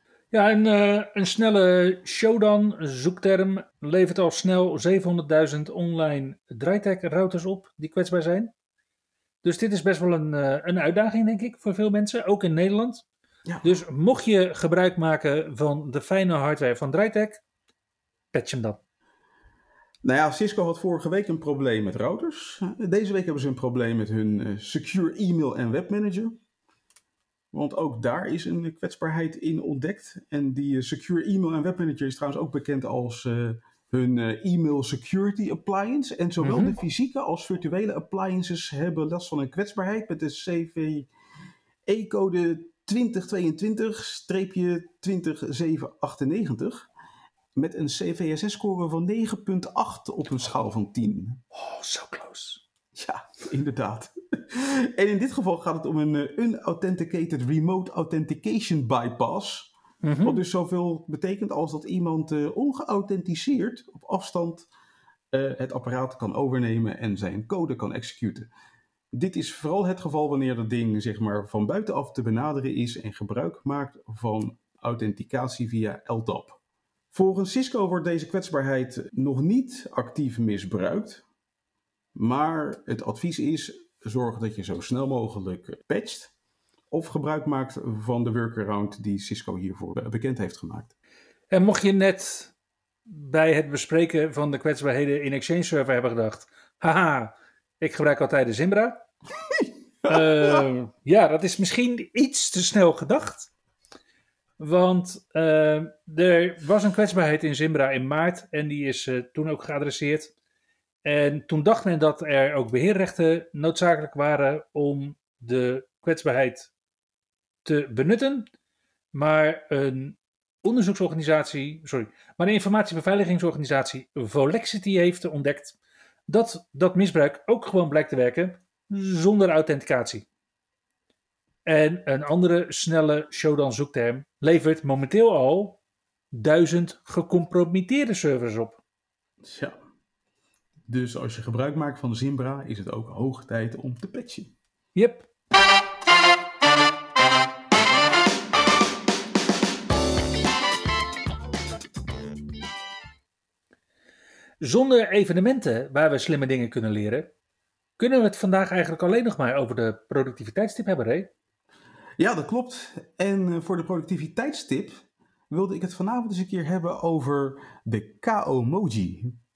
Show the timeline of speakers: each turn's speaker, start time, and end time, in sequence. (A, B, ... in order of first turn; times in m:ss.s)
0:00.3-0:08.5 A
0:09.4-0:13.0 A
0:13.6-0:17.4 A
0:18.3-0:18.8 A
0:20.0-0:26.4 B
0:27.5-0:41.1 B
0:36.4-0:36.8 A
0:41.9-0:46.9 B
0:47.6-0:51.4 B
0:51.5-0:52.6 A
0:52.9-1:04.7 B
1:00.0-1:00.4 A
1:05.3-1:08.5 B
1:09.1-1:16.6 B
1:17.1-1:21.2 B
1:22.1-1:26.3 B
1:26.9-1:30.9 B
1:31.5-1:32.5 A
1:33.1-1:39.0 A
1:39.4-1:40.6 B
1:40.1-1:43.5 A
1:44.6-1:50.3 A
1:51.0-1:56.7 A
1:57.6-1:58.5 A
1:59.1-2:05.8 A
2:06.3-2:10.3 A
2:11.6-2:15.8 A
2:16.3-2:18.8 A
2:19.4-2:19.8 B
2:20.9-2:24.5 B
2:25.0-2:25.3 A
2:34.6-2:37.3 A
2:38.0-2:41.3 A
2:42.2-2:49.4 B